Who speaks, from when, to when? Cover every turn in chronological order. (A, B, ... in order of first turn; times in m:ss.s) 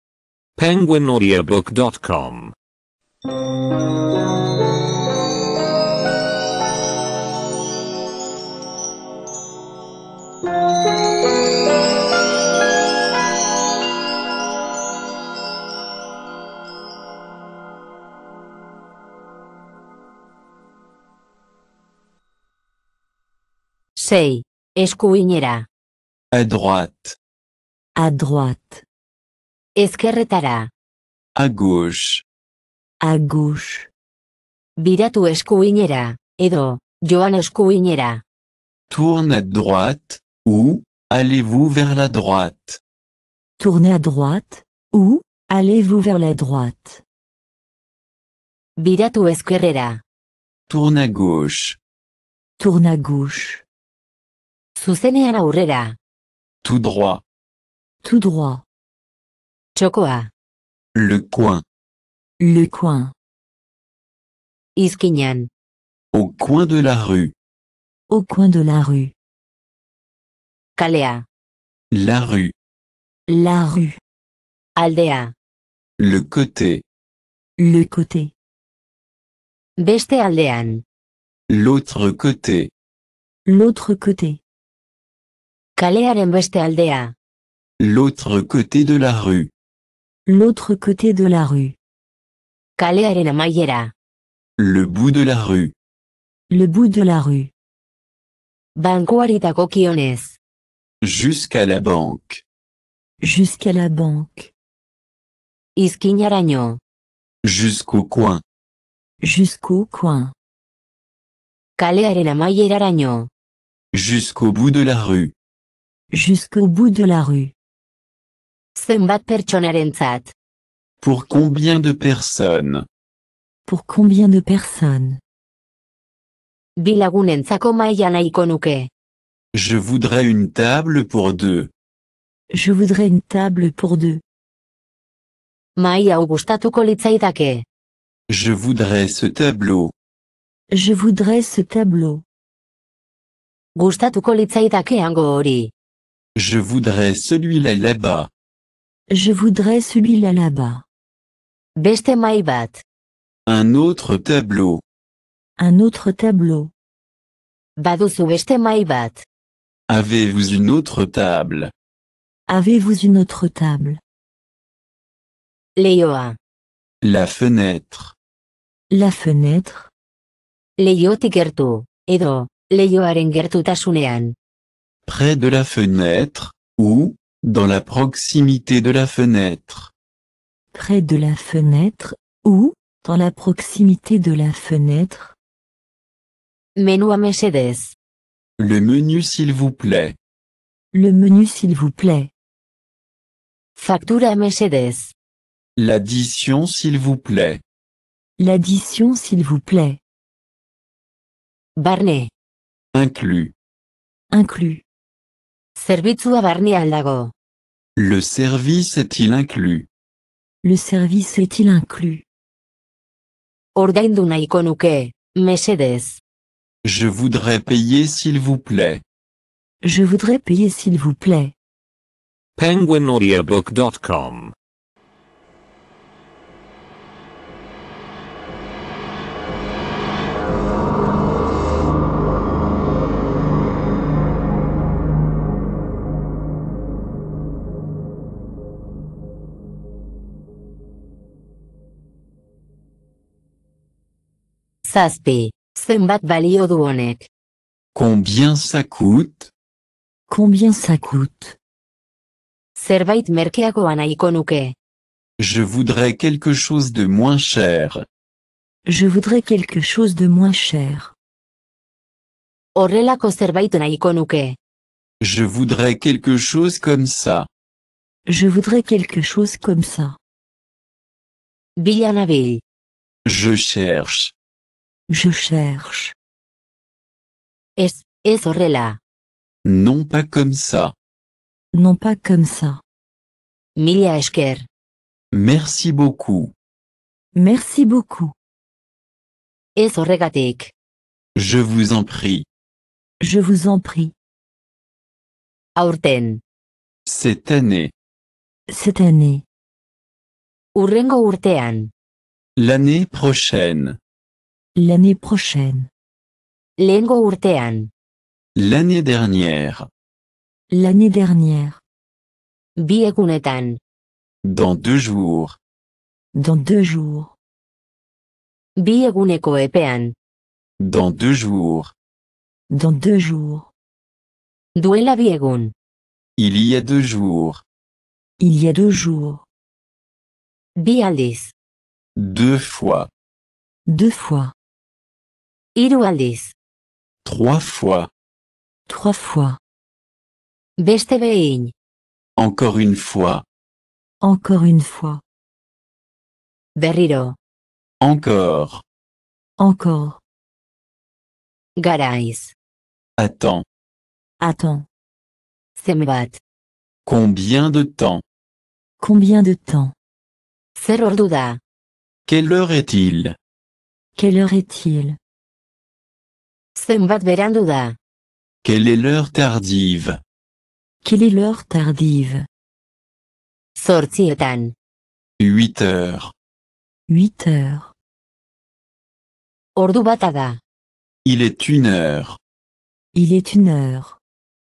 0:00.6-0:02.5 A
0:24.0-0:25.7 B
0:26.3-0:27.2 C
0:28.0-0:28.8 D
0:29.8-0:30.7 B
0:31.4-0:32.2 C
0:33.0-0:33.9 D
0:34.8-0:38.2 B
0:38.9-0:42.8 C
0:43.6-0:47.0 D
0:48.8-0:50.0 B
0:50.7-0:51.8 C
0:52.6-0:53.6 D
0:54.8-0:56.0 B
0:56.6-0:57.2 C
0:58.0-0:58.6 D
0:59.8-1:00.3 B
1:01.0-1:01.6 C
1:02.4-1:03.1 D
1:04.8-1:05.5 B
1:06.1-1:07.3 C
1:08.1-1:09.1 D
1:10.8-1:11.3 B
1:11.9-1:12.5 C
1:13.3-1:14.0 D
1:14.8-1:15.3 B
1:16.0-1:16.8 C
1:17.6-1:18.3 D
1:19.8-1:20.8 B
1:21.5-1:22.7 C
1:23.5-1:24.4 D
1:25.8-1:27.1 B
1:27.8-1:29.5 C
1:30.3-1:31.8 D
1:32.8-1:33.9 B
1:34.6-1:35.7 C
1:36.5-1:37.5 D
1:38.8-1:40.4 B
1:41.0-1:42.4 C
1:43.2-1:44.5 D
1:45.8-1:46.8 B
1:47.4-1:48.4 C
1:49.2-1:50.3 D
1:51.8-1:53.3 B
1:53.9-1:55.3 C
1:56.1-1:57.5 D
1:58.8-2:00.3 B
2:01.0-2:02.9 C
2:03.7-2:05.2 D
2:06.8-2:08.9 B
2:09.5-2:11.7 C
2:12.5-2:14.2 D
2:15.8-2:17.6 B
2:18.3-2:19.9 C
2:20.7-2:22.2 D
2:23.8-2:25.7 B
2:26.4-2:28.3 C
2:29.1-2:30.8 D
2:31.8-2:32.8 B
2:33.5-2:34.8 C
2:35.6-2:36.7 D
2:37.8-2:39.2 B
2:39.9-2:41.7 C
2:42.5-2:44.0 D
2:45.8-2:46.4 B
2:47.0-2:48.1 C
2:48.9-2:49.9 D
2:50.8-2:54.4 B
2:55.1-2:59.9 C
3:00.7-3:05.4 D
3:06.8-3:08.0 B
3:08.6-3:10.2 C
3:10.9-3:12.3 D
3:13.8-3:15.1 B
3:15.8-3:17.6 C
3:18.4-3:20.0 D
3:21.8-3:22.3 B
3:22.9-3:23.5 C
3:24.3-3:24.8 D
3:25.8-3:27.3 B
3:28.0-3:29.9 C
3:30.6-3:32.2 D
3:33.8-3:36.2 B
3:36.8-3:39.0 C
3:39.8-3:41.5 D
3:42.6-3:44.5 A
4:04.8-4:07.3 B
4:07.9-4:09.5 C
4:10.3-4:11.6 D
4:12.8-4:14.8 B
4:15.4-4:18.0 C
4:18.9-4:21.1 D
4:22.8-4:24.6 B
4:25.2-4:27.5 C
4:28.3-4:30.2 D
4:31.8-4:32.6 B
4:33.3-4:34.3 C
4:35.1-4:36.2 D
4:37.8-4:39.0 B
4:39.6-4:40.9 C
4:41.7-4:42.8 D
4:43.8-4:44.7 B
4:45.3-4:46.5 C
4:47.4-4:48.4 D
4:49.8-4:50.7 B
4:51.4-4:52.4 C
4:53.2-4:54.1 D
4:55.8-4:56.4 B
4:57.1-4:57.9 C
4:58.7-4:59.4 D
5:00.8-5:01.9 B
5:02.6-5:04.0 C
5:04.8-5:05.9 D
5:06.8-5:07.9 B
5:08.6-5:09.9 C
5:10.7-5:11.8 D
5:12.8-5:13.8 B
5:14.4-5:15.6 C
5:16.3-5:17.3 D
5:18.8-5:20.2 B
5:20.8-5:21.9 C
5:22.7-5:23.7 D
5:24.8-5:25.7 B
5:26.4-5:27.6 C
5:28.4-5:29.4 D
5:30.8-5:31.5 B
5:32.2-5:33.1 C
5:33.9-5:34.5 D
5:35.8-5:36.5 B
5:37.2-5:38.1 C
5:38.9-5:39.6 D
5:40.8-5:41.7 B
5:42.4-5:43.4 C
5:44.2-5:45.2 D
5:46.8-5:47.4 B
5:48.0-5:48.8 C
5:49.6-5:50.2 D
5:51.8-5:52.5 B
5:53.2-5:53.6 C
5:54.4-5:54.9 D
5:55.8-5:56.4 B
5:57.0-5:58.2 C
5:59.0-6:00.0 D
6:00.8-6:01.6 B
6:02.3-6:03.4 C
6:04.2-6:05.2 D
6:06.8-6:08.0 B
6:08.6-6:10.2 C
6:11.0-6:12.5 D
6:13.8-6:14.7 B
6:15.4-6:16.3 C
6:17.1-6:17.9 D
6:19.8-6:20.6 B
6:21.2-6:22.4 C
6:23.1-6:24.2 D